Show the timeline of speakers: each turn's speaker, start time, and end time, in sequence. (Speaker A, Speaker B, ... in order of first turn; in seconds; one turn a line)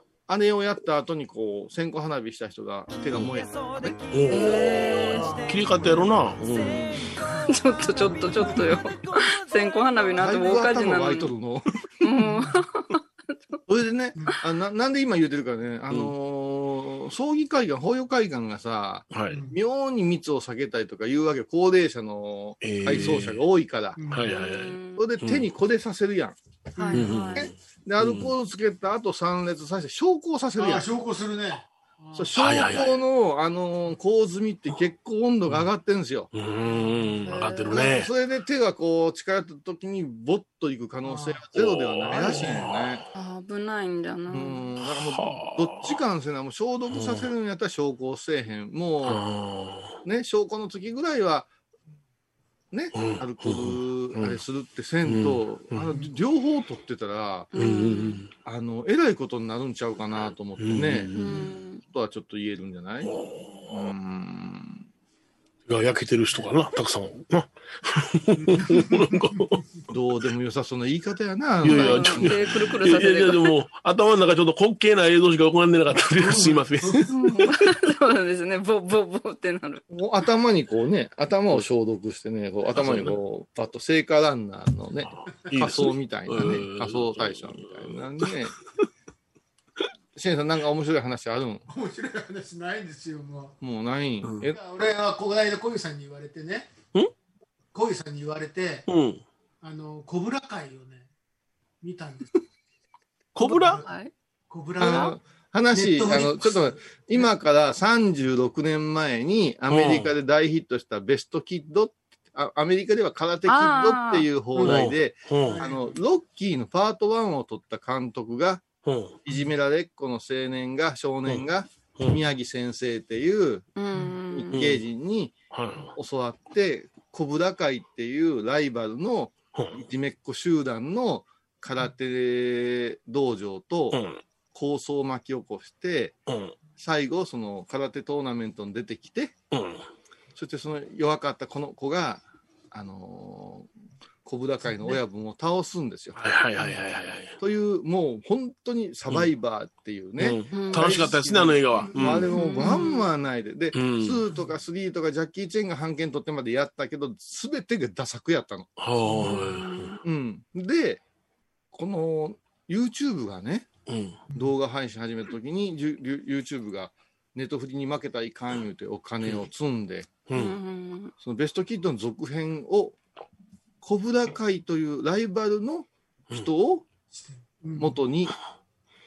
Speaker A: 0.3-4.1
Speaker B: 4.1-6.8
Speaker C: 4.3-5.4
Speaker D: 5.1-6.0
Speaker A: 6.5-7.2
Speaker D: 7.3-8.6
Speaker C: 7.5-11.3
Speaker A: 10.2-11.8
Speaker C: 12.0-13.0
Speaker D: 12.2-12.6
Speaker A: 13.7-24.0
Speaker B: 19.1-19.4
Speaker D: 19.3-19.6
Speaker B: 22.6-23.4
Speaker D: 24.0-24.3
Speaker B: 24.1-25.5
Speaker C: 24.3-25.1
Speaker A: 25.0-26.4
Speaker D: 26.8-27.2
Speaker C: 26.8-27.5
Speaker B: 26.9-28.3
Speaker A: 27.4-30.9
Speaker D: 30.6-32.4
Speaker A: 32.1-36.3
Speaker B: 32.4-33.0
Speaker B: 36.3-38.1
Speaker D: 36.7-37.4
Speaker C: 37.2-37.9
Speaker A: 37.7-43.0
Speaker D: 41.0-41.4
Speaker B: 41.5-43.0
Speaker C: 43.1-44.6
Speaker A: 44.3-49.2
Speaker B: 44.9-46.0
Speaker B: 46.9-47.3
Speaker B: 49.0-50.0
Speaker A: 50.0-51.5
Speaker A: 52.7-57.5
Speaker B: 52.9-54.4
Speaker B: 55.0-55.9
Speaker C: 57.5-58.2
Speaker B: 57.5-58.3
Speaker A: 58.5-61.1
Speaker B: 60.6-61.5
Speaker C: 61.2-61.8
Speaker A: 61.9-63.1
Speaker B: 63.0-63.9
Speaker A: 63.7-64.8
Speaker B: 65.7-69.6
Speaker D: 68.4-69.2
Speaker A: 69.9-72.8
Speaker B: 71.6-77.1
Speaker C: 71.7-73.5
Speaker D: 76.1-77.1
Speaker C: 77.1-79.8
Speaker A: 79.9-88.6
Speaker B: 82.7-83.2
Speaker B: 85.1-88.3
Speaker A: 90.2-91.7
Speaker D: 91.7-93.5
Speaker A: 93.6-94.6
Speaker B: 94.2-94.5
Speaker D: 94.5-96.7
Speaker D: 97.7-98.9
Speaker B: 98.9-99.2
Speaker D: 99.6-101.1
Speaker D: 101.8-102.4
Speaker B: 103.3-103.8
Speaker D: 103.4-103.9
Speaker C: 103.8-104.1
Speaker D: 104.5-105.2
Speaker A: 104.8-118.7
Speaker C: 104.8-105.1
Speaker D: 105.7-107.3
Speaker B: 109.7-110.1
Speaker C: 113.5-114.3
Speaker D: 114.5-114.9
Speaker B: 114.6-115.6
Speaker D: 115.4-116.0
Speaker B: 118.8-119.2
Speaker A: 119.2-123.7
Speaker C: 123.8-124.6
Speaker A: 124.3-125.3
Speaker B: 124.5-124.8
Speaker B: 125.5-125.9
Speaker A: 126.0-134.0
Speaker B: 133.9-134.2
Speaker A: 134.5-136.2
Speaker B: 136.3-136.6
Speaker A: 136.8-139.3
Speaker B: 139.5-139.8
Speaker A: 140.3-143.7
Speaker A: 144.2-146.3
Speaker B: 146.2-147.3
Speaker A: 147.4-158.7
Speaker B: 150.2-152.3
Speaker C: 150.5-151.0
Speaker D: 150.8-151.9
Speaker C: 152.3-153.1
Speaker B: 153.7-154.2
Speaker B: 158.8-159.9
Speaker C: 159.2-160.0
Speaker A: 160.0-161.0
Speaker A: 161.7-163.7
Speaker B: 163.9-164.2
Speaker A: 164.3-170.2
Speaker B: 170.3-170.6
Speaker C: 170.3-171.1
Speaker A: 171.2-173.0
Speaker A: 173.8-176.9
Speaker D: 177.1-178.0
Speaker A: 177.8-178.3